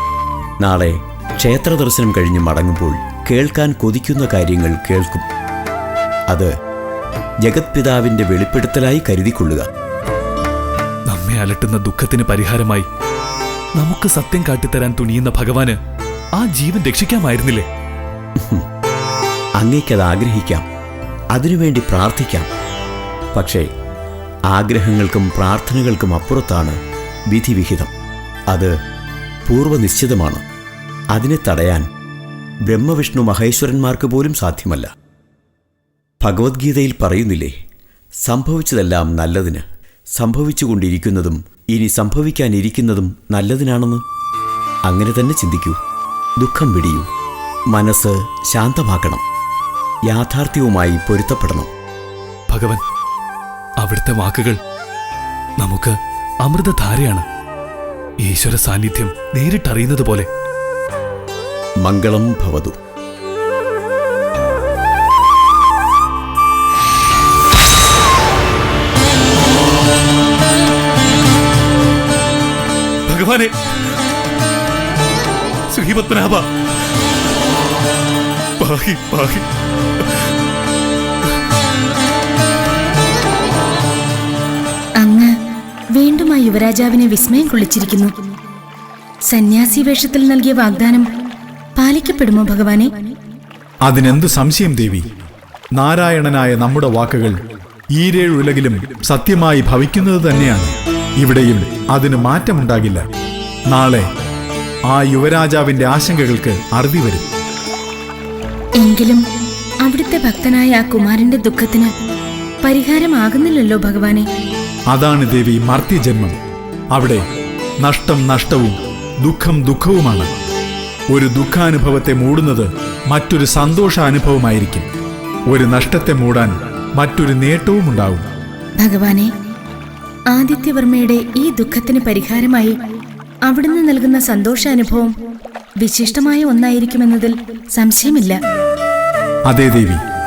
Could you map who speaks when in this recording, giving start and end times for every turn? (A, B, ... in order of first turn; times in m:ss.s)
0:00.6-0:05.2 A
0:07.4-0:09.6 A
0:11.1-0:12.9 B
0:13.8-0:15.8 B
0:16.4-0:17.7 B
0:19.6-0:20.6 A
0:21.4-0:22.5 A
0:23.3-0:23.6 A
0:24.5-0:26.8 A
0:27.3-0:27.9 A
0:29.4-0:30.4 A
0:31.1-0:31.9 A
0:32.7-0:34.9 A
0:36.2-0:37.5 A
0:38.2-0:39.6 A
0:40.2-0:44.0 A
0:44.9-0:45.8 A
0:46.4-0:47.1 A
0:47.7-0:49.2 A
0:50.1-0:51.7 A
0:52.5-0:52.8 B
0:53.8-0:54.6 B
0:55.6-0:57.2 B
0:58.2-1:00.3 B
1:01.8-1:02.8 A
1:15.8-1:16.4 B
1:18.6-1:19.4 B
1:25.0-1:25.3 C
1:25.9-1:28.1 C
1:29.3-1:31.1 C
1:31.8-1:33.1 C
1:33.8-1:35.1 D
1:35.7-1:37.4 D
1:37.9-1:43.0 D
1:43.7-1:44.0 D
1:44.9-1:47.2 D
1:48.8-1:49.2 C
1:49.8-1:51.9 C
1:52.6-1:54.2 C
1:54.9-1:56.4 D
1:56.9-1:57.2 D
1:57.8-2:00.3 D
2:01.1-2:04.9 D
2:05.5-2:08.2 D
2:08.8-2:09.3 C
2:10.3-2:12.8 C
2:13.4-2:15.1 C
2:15.8-2:18.4 C
2:19.5-2:20.0 D